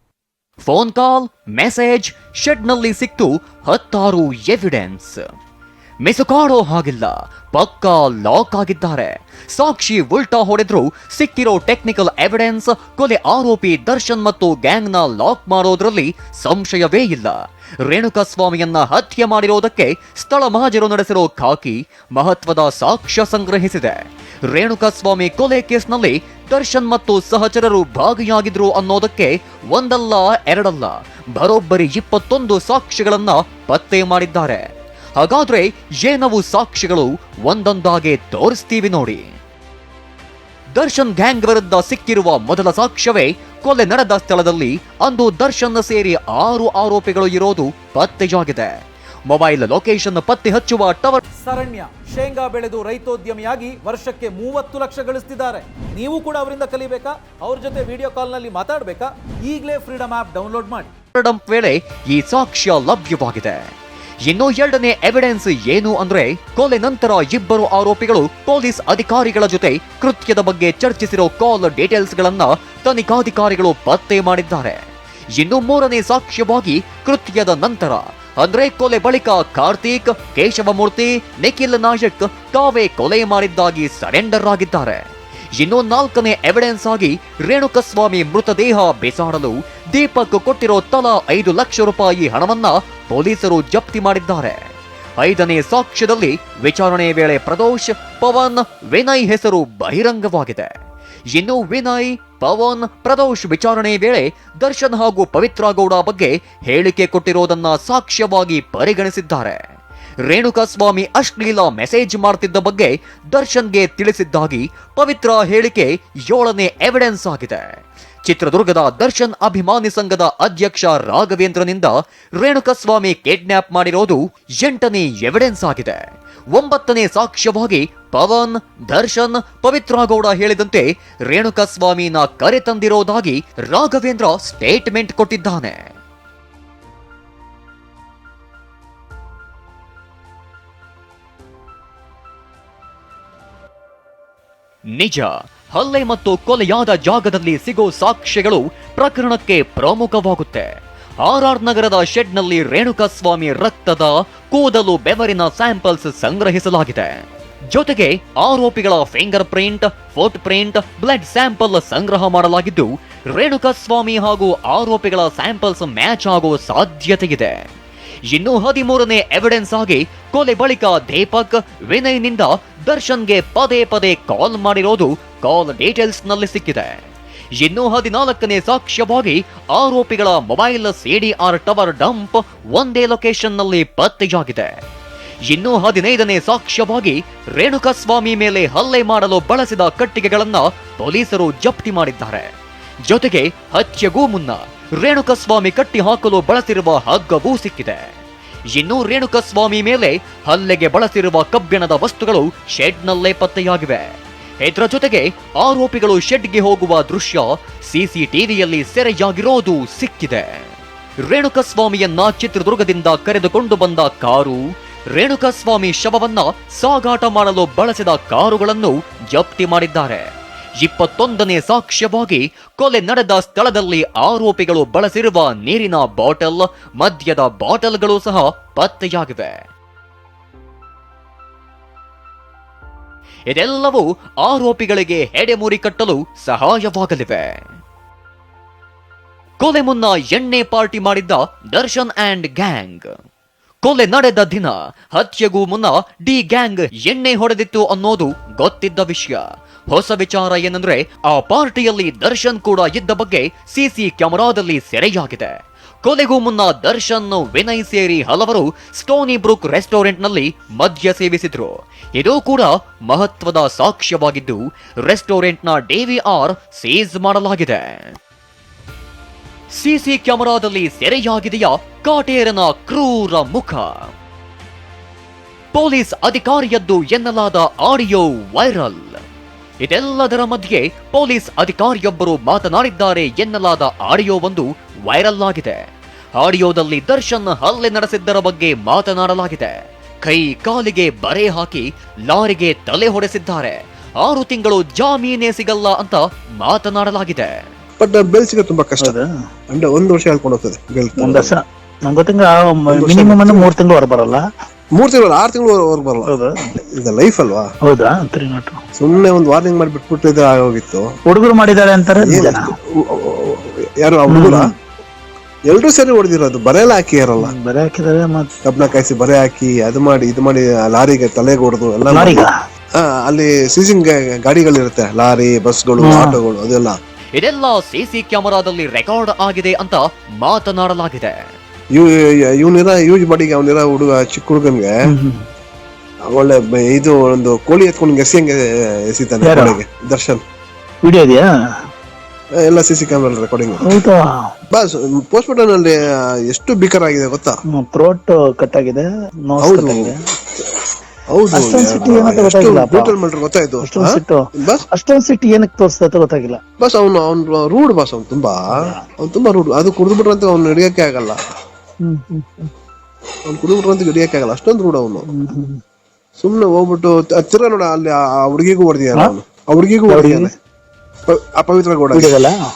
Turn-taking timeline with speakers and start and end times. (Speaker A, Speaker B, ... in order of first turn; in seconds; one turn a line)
Speaker A: 0.6-5.2
Speaker A: 6.0-34.6
Speaker A: 35.2-39.3
Speaker A: 40.7-48.7
Speaker A: 49.3-51.2
Speaker B: 51.4-60.9
Speaker A: 61.1-63.6
Speaker A: 64.3-74.8
Speaker A: 75.3-85.0
Speaker A: 85.6-94.6
Speaker A: 95.2-100.7
Speaker A: 101.3-109.6
Speaker A: 110.2-117.7
Speaker A: 118.2-126.0
Speaker A: 126.5-135.8
Speaker A: 144.9-150.7
Speaker A: 151.2-157.2
Speaker A: 157.7-167.6
Speaker A: 168.3-176.9
Speaker A: 177.6-184.7
Speaker A: 185.5-192.5
Speaker A: 193.1-198.0
Speaker A: 198.7-204.1
Speaker A: 204.6-210.7
Speaker A: 211.2-220.3
Speaker A: 220.8-229.6
Speaker A: 233.5-237.6
Speaker A: 239.6-243.1
Speaker A: 243.8-268.1
Speaker A: 269.8-274.1
Speaker A: 275.7-279.2
Speaker A: 279.8-285.8
Speaker A: 286.4-297.6
Speaker C: 298.0-299.1
Speaker C: 299.7-301.6
Speaker D: 301.2-304.4
Speaker C: 302.9-303.7
Speaker C: 304.9-306.3
Speaker D: 306.3-306.6
Speaker C: 307.0-307.7
Speaker D: 307.8-308.8
Speaker C: 309.0-311.1
Speaker D: 311.3-312.7
Speaker C: 312.2-314.6
Speaker D: 314.3-314.6
Speaker C: 315.7-317.5
Speaker D: 317.4-318.5
Speaker C: 318.7-322.4
Speaker D: 322.1-322.5
Speaker C: 323.0-327.0
Speaker D: 326.0-326.4
Speaker A: 327.4-331.4
Speaker C: 331.9-334.9
Speaker D: 335.1-335.4
Speaker C: 336.3-340.4
Speaker D: 339.4-339.8
Speaker D: 341.0-341.5
Speaker C: 342.6-343.9
Speaker D: 343.8-344.5
Speaker C: 344.7-347.6
Speaker D: 347.7-350.1
Speaker C: 349.6-350.1
Speaker C: 351.3-354.9
Speaker D: 351.5-353.1
Speaker D: 353.8-356.6
Speaker C: 356.8-361.4
Speaker D: 362.0-362.7
Speaker C: 363.5-365.3
Speaker D: 365.3-365.8
Speaker C: 366.4-370.5
Speaker D: 370.1-370.5
Speaker C: 371.3-372.3
Speaker D: 372.1-372.6